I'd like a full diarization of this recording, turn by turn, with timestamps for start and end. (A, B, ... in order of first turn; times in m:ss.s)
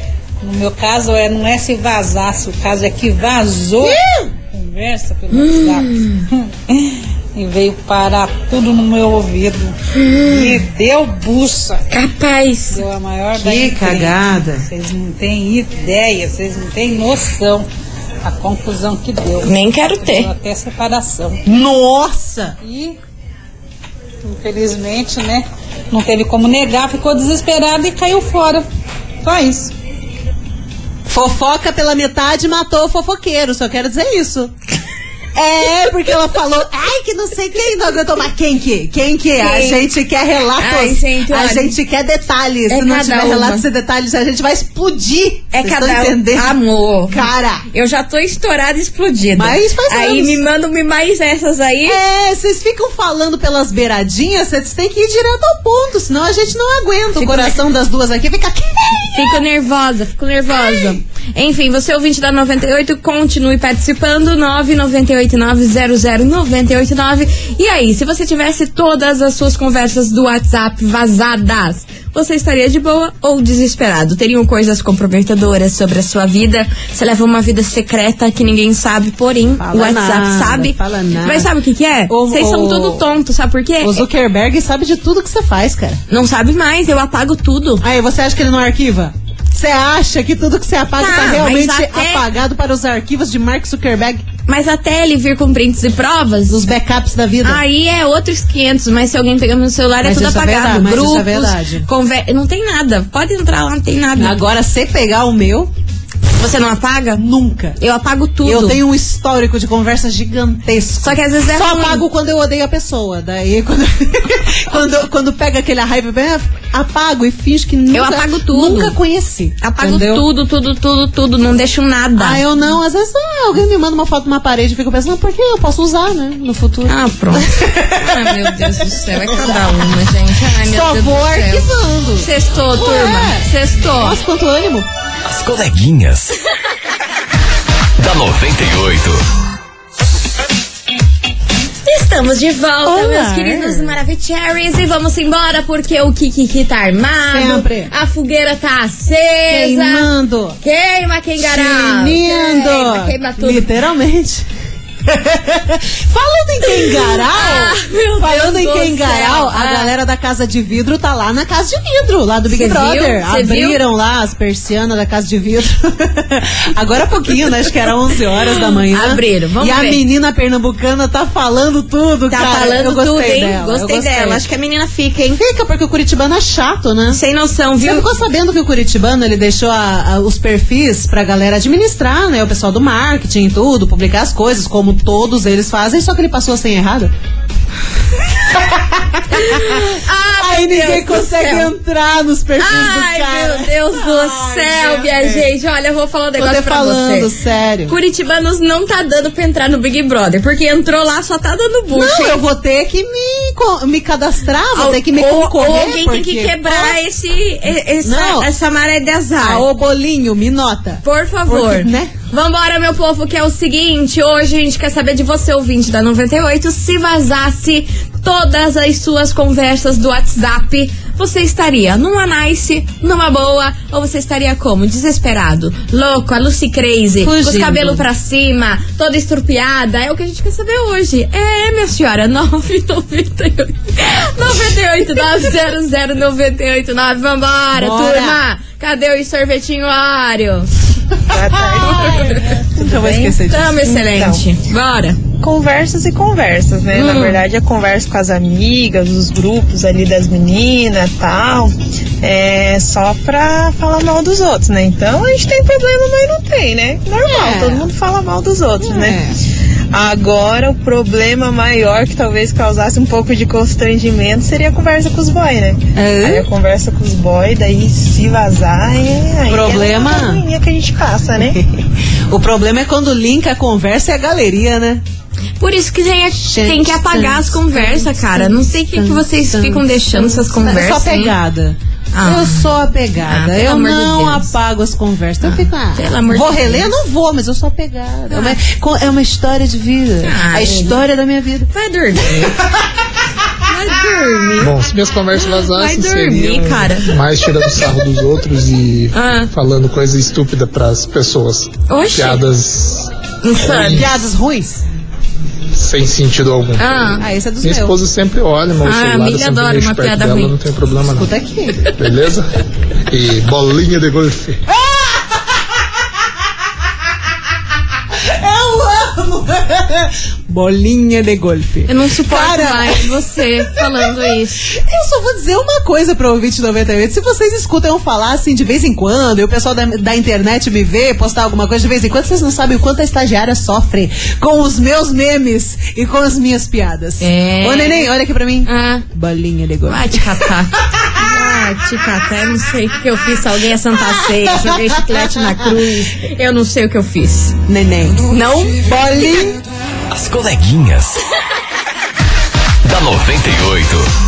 0:00.4-0:11.8 A
0:03.8-0:04.3 B
0:05.3-0:06.2 C
0:10.0-0:10.6 C
0:11.9-0:12.8 C
0:12.7-0:17.7 A
0:13.4-0:14.7 B
0:18.2-0:21.4 A
0:19.4-0:20.3 C
0:21.4-0:22.6 B
0:22.6-0:23.0 A
0:24.2-0:28.7 A
0:29.2-0:29.7 A
0:31.1-0:34.5 B
0:35.4-0:46.6 B
0:39.4-0:39.8 C
0:40.6-0:41.8 C
0:42.7-0:43.6 C
0:45.5-0:52.0 C
0:47.1-0:47.7 B
0:49.4-0:50.4 B
0:51.8-0:59.4 B
0:57.2-0:57.6 C
0:59.1-1:24.0 C
1:00.5-1:01.0 B
1:19.6-1:21.5 B
1:22.1-1:23.1 B
1:23.8-1:26.0 B
1:26.1-1:27.8 C
1:27.8-1:34.2 B
1:31.0-1:32.2 C
1:34.5-1:36.6 C
1:36.5-1:37.6 B
1:37.4-1:44.4 C
1:40.0-1:41.9 B
1:44.2-1:45.7 B
1:46.4-1:47.2 C
1:47.2-1:47.8 B
1:47.8-1:48.8 C
1:48.4-2:00.3 B
1:51.0-1:52.0 C
1:57.9-1:59.0 C
1:59.6-2:02.4 C
2:02.2-2:10.0 B
2:06.9-2:14.2 C
2:10.6-2:14.9 B
2:15.2-2:16.4 D
2:18.0-2:19.2 D
2:21.9-2:30.1 C
2:22.8-2:24.0 B
2:27.3-2:27.9 B
2:29.5-2:30.6 B
2:30.6-2:33.7 C
2:31.4-2:34.5 B
2:35.1-2:54.4 B
2:36.6-2:39.9 C
2:42.5-2:43.8 C
2:48.9-2:50.0 C
2:52.3-2:55.4 C
2:55.4-2:57.2 B
2:57.1-2:58.1 C
2:57.8-3:07.1 B
3:08.4-3:15.5 B
3:09.3-3:11.7 C
3:12.6-3:17.3 C
3:16.4-3:18.0 B
3:17.9-3:22.4 C
3:21.9-3:27.0 B
3:24.7-3:29.7 C
3:28.0-3:28.5 B
3:29.4-3:32.1 B
3:31.0-4:00.7 C
3:47.2-3:48.1 B
3:57.7-3:58.4 B
4:01.3-4:03.3 E
4:01.4-4:03.8 B
4:02.0-4:02.2 C
4:03.4-4:05.2 C
4:03.8-4:04.4 E
4:05.4-4:19.2 E
4:06.9-4:07.4 C
4:17.2-4:17.9 B
4:18.8-4:19.4 B
4:19.9-4:31.6 E
4:26.0-4:26.5 B
4:29.5-4:30.4 B
4:31.4-4:35.0 B
4:35.6-4:41.4 C
4:36.4-4:51.7 B
4:42.1-4:42.7 C
4:43.3-4:44.5 C
4:45.4-4:46.9 C
4:48.3-4:48.6 C
4:50.2-4:51.0 C
4:51.7-4:52.6 C
4:52.4-4:52.7 B
4:53.6-4:54.7 C
4:54.6-5:03.1 F
4:55.4-4:57.2 C
4:59.1-4:59.5 C
5:01.9-5:02.4 C
5:03.4-5:04.1 C
5:03.6-5:04.8 B
5:03.7-5:04.0 F
5:05.8-5:07.0 F
5:06.8-5:07.2 C
5:07.2-5:08.0 B
5:07.6-5:11.3 F
5:08.8-5:10.6 C
5:11.2-5:11.8 B
5:11.9-5:12.5 F
5:13.1-5:14.6 F
5:14.7-5:15.4 B
5:18.1-5:41.0 B
5:21.9-5:24.7 C
5:37.2-5:38.1 C
5:38.6-5:39.0 C
5:39.9-5:47.6 C
5:43.9-5:45.8 B
5:47.7-5:48.2 B
5:48.3-5:49.1 C
5:48.8-5:49.6 B
5:50.1-5:51.2 D
5:52.8-5:54.1 D